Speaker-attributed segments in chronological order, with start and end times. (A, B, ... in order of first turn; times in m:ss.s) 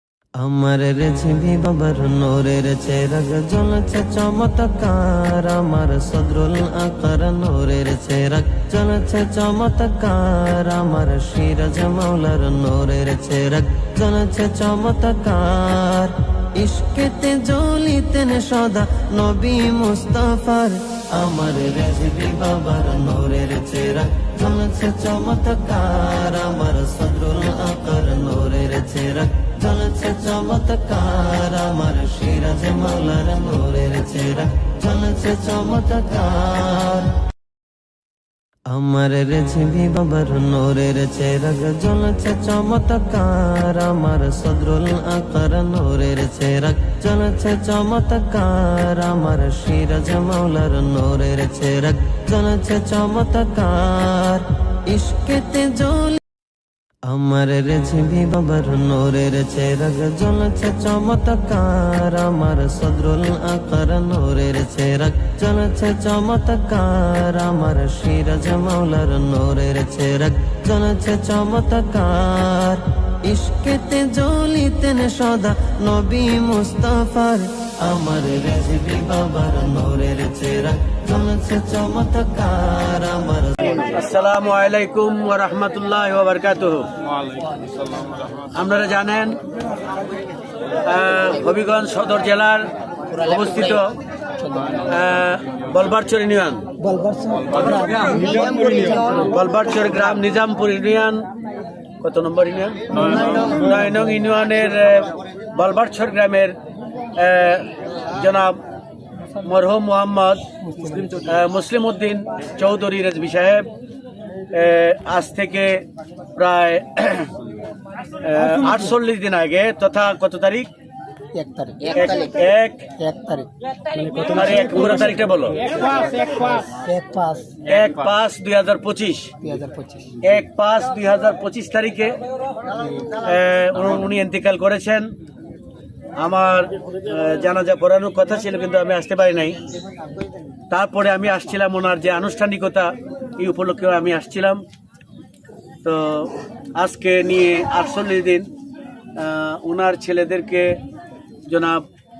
0:00.4-0:37.1 A
0:38.7-0:56.2 A
0:57.1-1:23.8 A
1:23.8-1:26.9 B
1:28.5-1:29.4 B
1:30.8-1:34.0 B
1:34.8-1:36.7 B
1:36.8-1:39.0 C
1:37.8-1:38.2 B
1:39.1-1:41.3 B
1:42.0-1:46.6 B
1:47.2-1:48.6 B
1:49.4-1:50.5 B
1:51.1-1:53.7 B
1:54.5-1:57.3 B
1:58.2-2:00.7 B
2:01.4-2:01.8 C
2:01.9-2:02.9 B
2:03.0-2:03.5 C
2:04.1-2:05.6 B
2:06.7-2:07.5 C
2:07.6-2:09.4 B
2:09.4-2:10.0 C
2:10.2-2:12.2 B
2:13.1-2:15.1 B
2:16.2-2:19.6 B
2:20.7-2:24.6 B
2:25.8-2:28.5 B
2:29.2-2:30.8 B
2:31.5-2:31.8 B